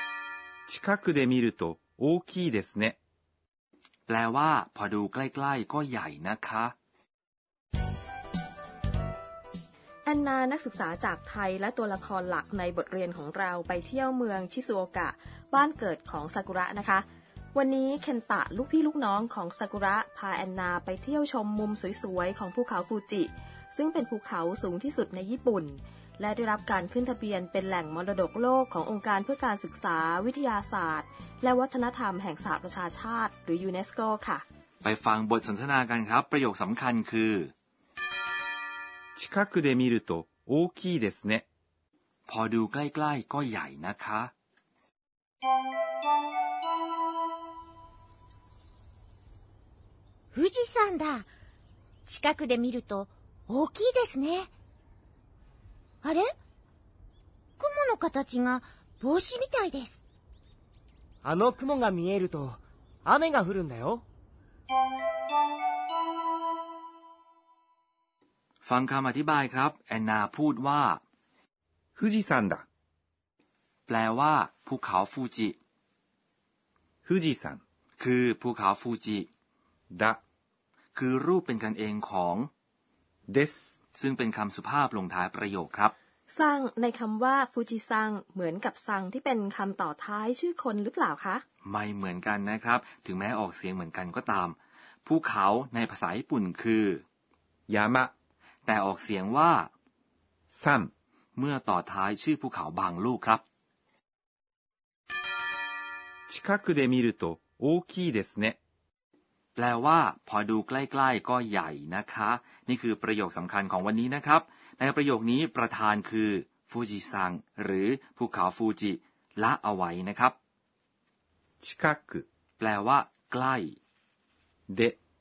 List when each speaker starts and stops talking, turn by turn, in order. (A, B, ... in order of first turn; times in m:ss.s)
0:00.7-0:03.0 A
0:04.1-0:06.7 B
0:10.0-0:34.4 C
0:34.8-0:37.5 B
0:39.2-0:41.4 A
0:42.3-0:44.3 B
0:50.4-0:51.3 D
0:52.1-0:54.5 D
0:56.0-0:56.3 D
0:57.6-1:00.0 D
1:01.2-1:04.0 E
1:08.6-1:11.0 B
1:12.0-1:12.7 A
1:13.9-1:15.6 B
1:17.0-1:17.6 A
1:18.0-1:19.3 B
1:19.9-1:20.2 A
1:21.0-1:22.5 B
1:23.3-1:23.7 A
1:24.0-1:25.9 B
1:26.3-1:31.4 C
1:31.6-1:37.0 B
1:37.7-1:38.1 A
1:38.7-1:39.7 B
1:40.5-1:40.9 A
1:41.4-1:43.4 B
1:46.3-1:48.6 A
1:49.6-2:00.4 B
2:01.6-2:02.3 A
2:02.6-2:03.8 B
2:04.7-2:05.0 A